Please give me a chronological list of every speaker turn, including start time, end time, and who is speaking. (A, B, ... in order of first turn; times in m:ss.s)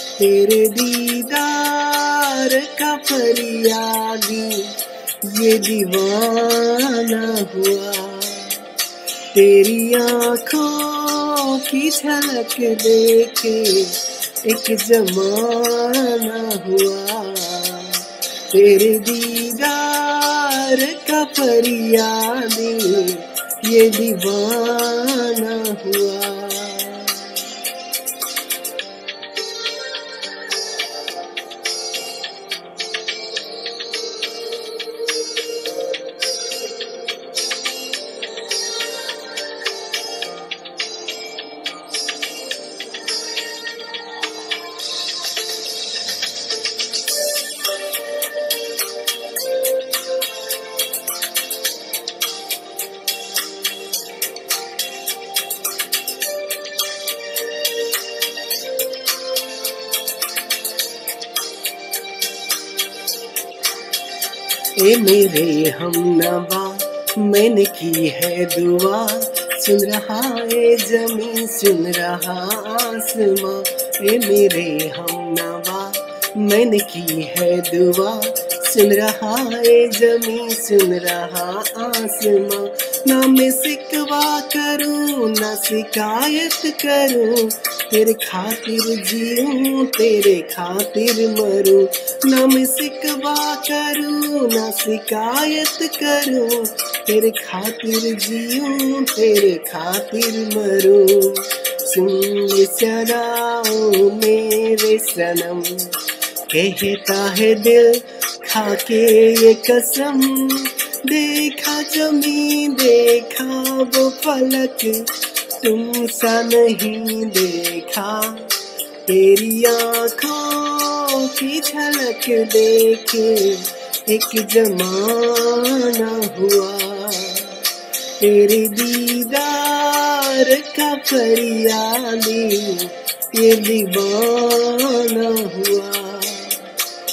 0:00.2-0:08.8 A
0:09.3-0:27.6 A
1:04.8-2:16.8 A